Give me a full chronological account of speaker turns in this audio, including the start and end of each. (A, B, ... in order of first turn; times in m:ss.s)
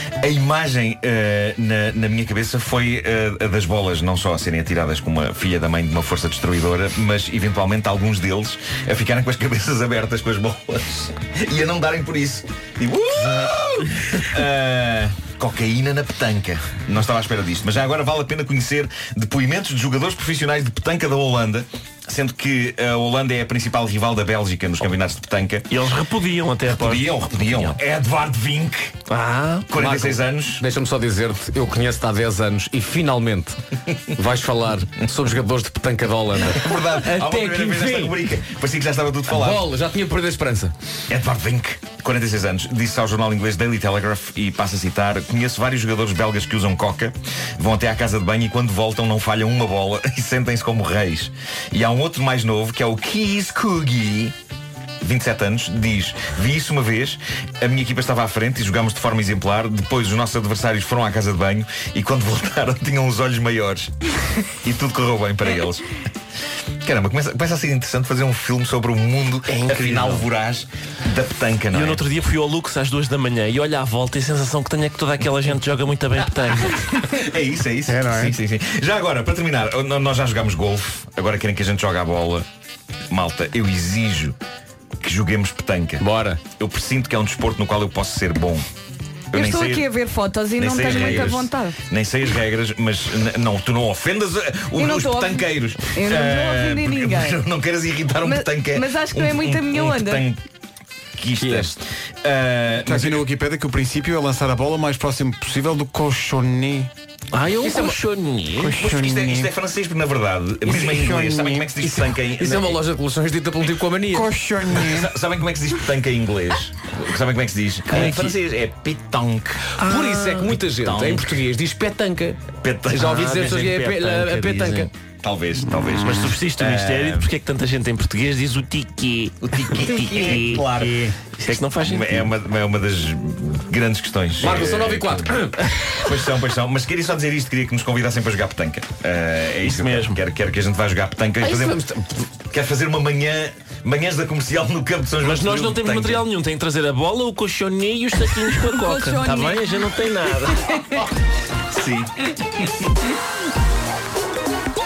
0:00.2-0:25.7 A
0:13.4-0:14.2 B
0:25.7-0:27.8 B
0:26.6-0:29.0 A
0:29.1-0:30.0 B
0:29.7-0:30.6 A
0:29.8-0:38.2 C
0:36.4-0:39.7 A
0:39.3-0:40.7 C
0:41.1-0:54.3 A
0:55.0-1:03.9 A
1:04.6-1:05.8 A
1:06.8-1:12.0 A
1:09.5-1:10.2 B
1:11.7-1:17.0 B
1:17.0-1:22.4 A
1:17.8-1:18.4 D
1:23.1-1:24.4 A
1:25.0-1:28.6 A
1:26.0-1:26.4 C
1:29.3-1:29.9 A
1:29.3-1:31.8 E
1:30.6-1:40.4 A
1:30.9-1:31.4 C
1:34.8-1:37.4 E
1:38.2-1:40.2 E
1:41.1-1:43.3 A
1:41.4-1:41.7 C
1:42.8-1:46.9 D
1:47.3-1:48.8 B
1:47.5-1:48.0 C
1:48.6-1:49.5 D
1:48.8-1:52.8 A
1:50.7-1:51.0 C
1:50.8-1:51.7 D
1:51.8-1:54.3 C
1:54.1-1:55.1 D
1:54.7-1:59.8 A
1:57.9-1:58.3 C
1:59.8-2:00.6 B
1:59.8-2:04.9 C
2:00.7-2:01.3 A
2:02.6-2:03.7 A
2:03.0-2:04.9 B
2:05.2-2:07.3 A
2:06.0-2:12.3 B
2:09.4-2:21.9 A
2:14.4-2:15.7 C
2:19.6-2:20.2 B
2:21.4-2:22.2 C
2:22.5-2:26.2 A
2:25.2-2:30.8 B
2:28.5-2:29.7 E
2:30.5-2:31.0 E
2:31.7-2:33.0 A